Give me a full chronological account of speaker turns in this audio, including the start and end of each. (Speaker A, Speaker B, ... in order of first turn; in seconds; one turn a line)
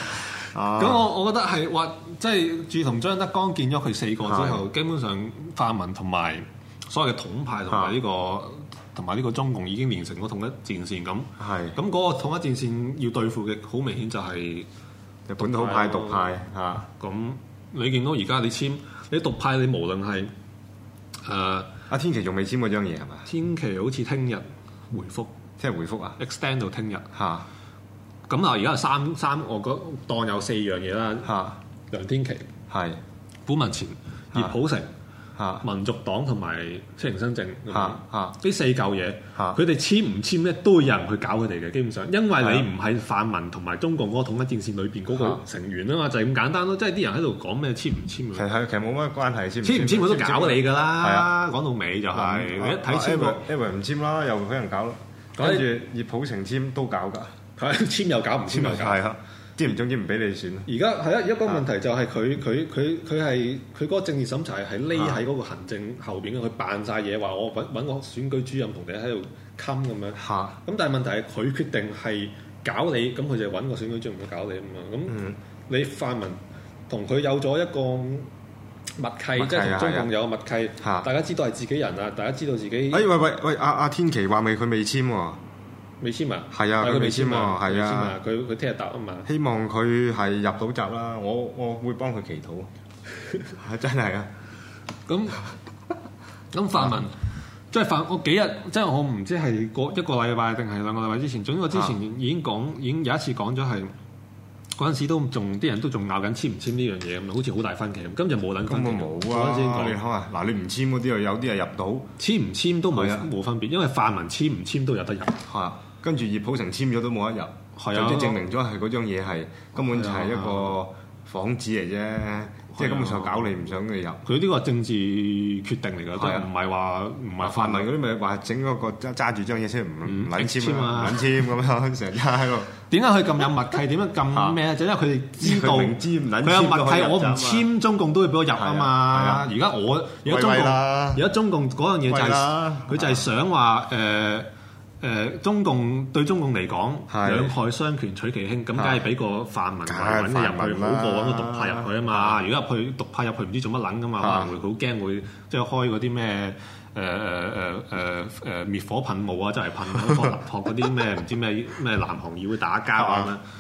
Speaker A: 0.5-1.1
Speaker B: 0.8-14.7
Speaker A: 4.2-4.7
Speaker A: 7.7-8.0
Speaker A: 11.4-11.8
Speaker A: 15.3-16.9
Speaker B: 15.4-16.4
Speaker B: 17.0-20.3
Speaker B: 21.2-21.7
Speaker A: 21.9-23.3
Speaker B: 23.3-25.4
Speaker A: 25.6-26.2
Speaker B: 26.2-27.1
Speaker A: 27.1-27.5
Speaker B: 28.3-31.4
Speaker A: 31.2-31.6
Speaker B: 31.9-32.5
Speaker A: 32.7-33.0
Speaker B: 33.5-34.9
Speaker A: 35.4-35.6
Speaker B: 35.6-48.5
Speaker A: 37.7-38.4
Speaker A: 42.4-42.7
Speaker A: 45.1-45.4
Speaker A: 48.4-51.3
Speaker B: 49.6-53.4
Speaker A: 52.1-57.3
Speaker B: 55.4-55.7
Speaker B: 57.6-59.0
Speaker A: 58.5-60.7
Speaker B: 60.7-78.3
Speaker A: 64.9-65.2
Speaker A: 70.2-70.6
Speaker A: 75.1-75.4
Speaker B: 79.0-83.1
Speaker A: 79.4-80.1
Speaker A: 80.8-81.1
Speaker A: 82.9-85.4
Speaker B: 86.0-89.3
Speaker A: 86.5-88.2
Speaker A: 89.3-92.7
Speaker A: 93.6-94.3
Speaker B: 95.1-95.4
Speaker B: 96.5-97.1
Speaker B: 97.7-103.9
Speaker B: 104.8-110.0
Speaker A: 108.7-112.1
Speaker B: 112.2-115.4
Speaker A: 112.9-113.3
Speaker A: 115.5-124.2
Speaker B: 117.8-118.4
Speaker B: 119.8-120.8
Speaker B: 122.7-123.5
Speaker B: 124.2-127.9
Speaker A: 126.2-126.5
Speaker A: 127.4-132.7
Speaker B: 130.1-131.5
Speaker B: 132.9-144.5
Speaker A: 134.3-134.6
Speaker A: 135.4-137.7
Speaker A: 138.6-139.5
Speaker A: 140.3-141.2
Speaker A: 142.1-143.2
Speaker B: 145.0-163.4
Speaker A: 147.1-147.5
Speaker A: 148.8-149.1
Speaker A: 149.9-152.4
Speaker A: 154.2-154.5
Speaker A: 163.0-163.3